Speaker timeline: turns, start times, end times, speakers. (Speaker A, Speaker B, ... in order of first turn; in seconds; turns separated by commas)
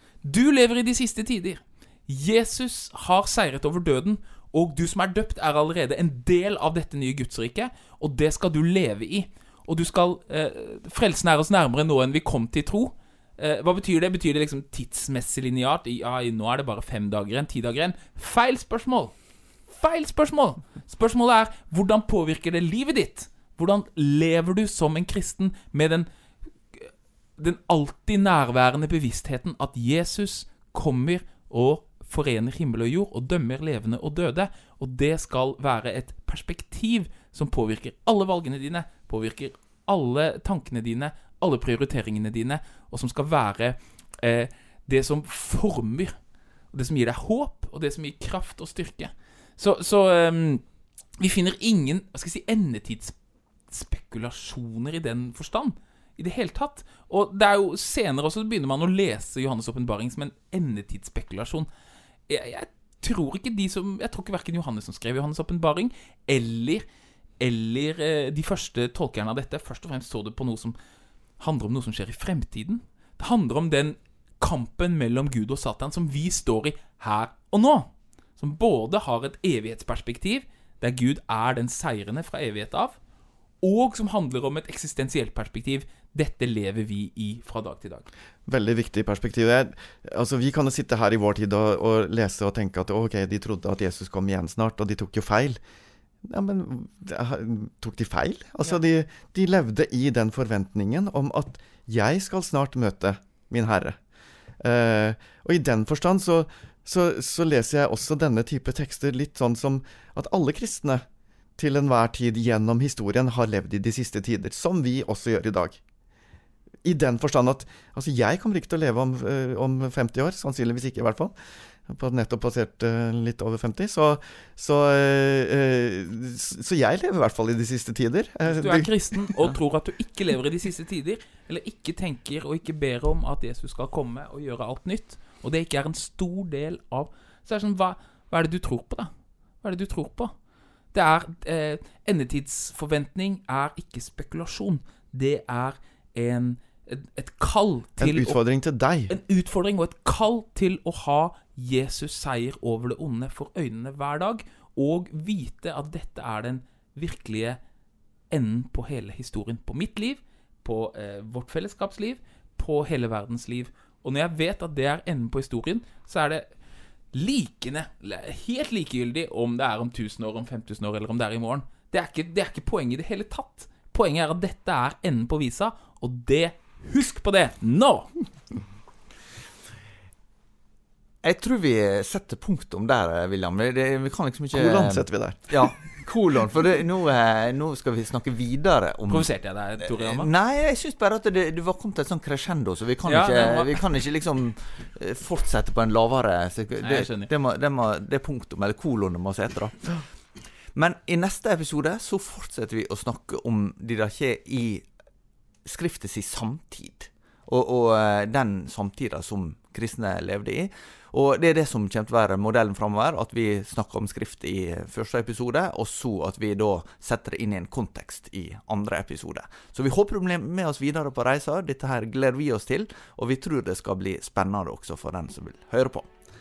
Speaker A: 0.2-19.1, Speaker A: 19.7-26.1, Speaker A: 26.8-46.2, Speaker A: 46.7-50.6, Speaker A: 51.2-53.1, Speaker A: 53.7-61.7, Speaker A: 62.3-66.8, Speaker A: 67.4-70.8, Speaker A: 71.4-83.0, Speaker A: 83.6-88.1, Speaker B: 88.5-95.6, Speaker B: 96.2-104.0, Speaker B: 104.6-111.0, Speaker B: 111.6-115.8, Speaker B: 116.8-121.3, Speaker B: 121.9-129.2, Speaker A: 128.4-139.1, Speaker A: 139.6-140.3, Speaker A: 140.9-148.4, Speaker B: 148.0-149.1, Speaker A: 149.1-157.6, Speaker A: 158.3-166.4, Speaker A: 167.1-178.1, Speaker C: 181.2-200.1, Speaker B: 184.5-185.7, Speaker A: 189.1-190.3, Speaker A: 193.1-193.8, Speaker A: 196.8-197.3, Speaker C: 200.7-204.9, Speaker C: 205.7-226.1